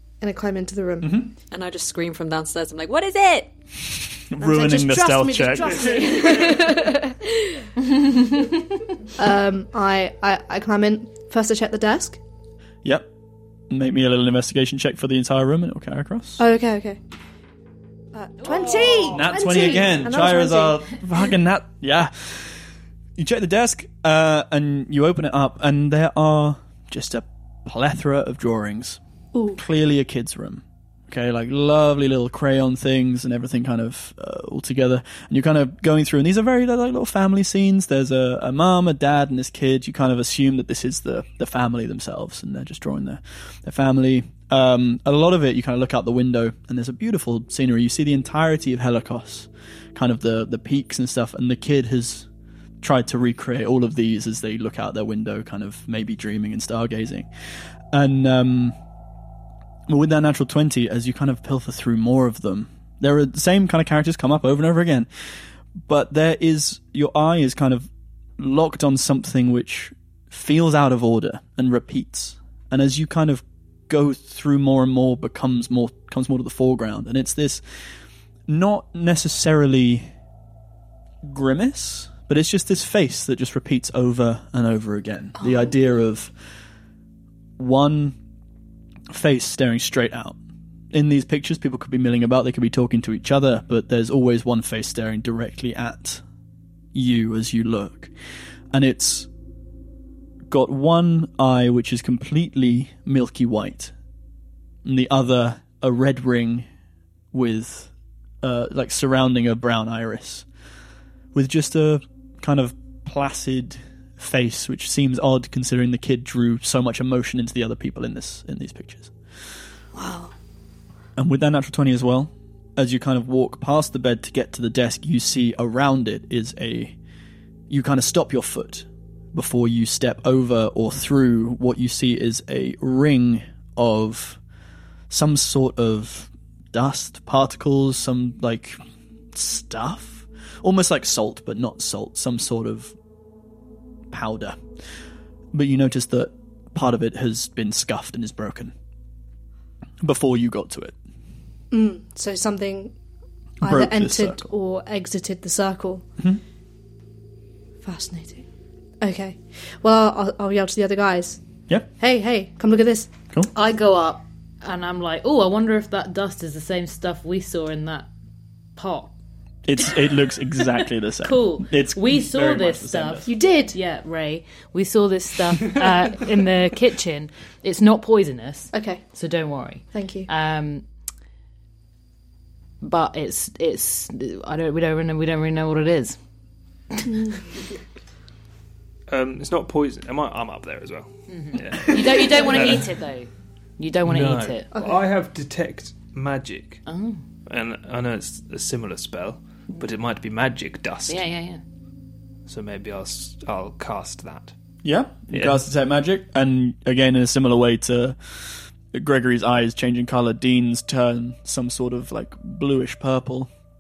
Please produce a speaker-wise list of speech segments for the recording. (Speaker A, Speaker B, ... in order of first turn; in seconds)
Speaker A: 0.2-1.2, 4.4-7.2, 9.2-12.2, 16.4-17.0, 18.1-20.9, 29.3-29.6, 151.7-152.9, 153.6-156.1, 157.8-158.4, 159.0-161.4, 162.0-163.1, 173.3-173.8, 178.7-179.0, 179.9-180.3, 194.8-195.0
Speaker B: 1.0-1.3, 4.2-5.9, 13.7-16.4, 19.1-22.6, 23.2-29.0, 29.5-52.3, 52.8-57.3, 57.9-58.8, 59.9-65.1, 65.8-77.6, 78.5-80.1, 81.2-86.3, 87.6-88.2, 89.1-90.4, 90.9-96.2, 96.9-98.1, 98.7-99.3, 100.5-103.9, 104.8-106.7, 107.3-107.9, 108.4-110.5, 111.3-119.1, 121.2-127.0, 127.7-134.4, 135.1-138.8, 139.3-142.9, 144.1-144.6, 145.5-148.7, 150.0-151.0, 153.6-154.5, 169.7-173.3, 204.8-208.2, 208.9-213.5
Speaker C: 1.5-3.5
Speaker D: 18.5-19.2, 120.0-120.3, 163.5-168.1, 168.8-169.1, 171.2-180.9, 182.8-186.2, 191.3-194.7, 196.9-197.2, 201.1-201.6
Speaker E: 189.1-192.9, 194.1-196.8, 197.5-201.2, 202.5-204.5, 205.3-205.6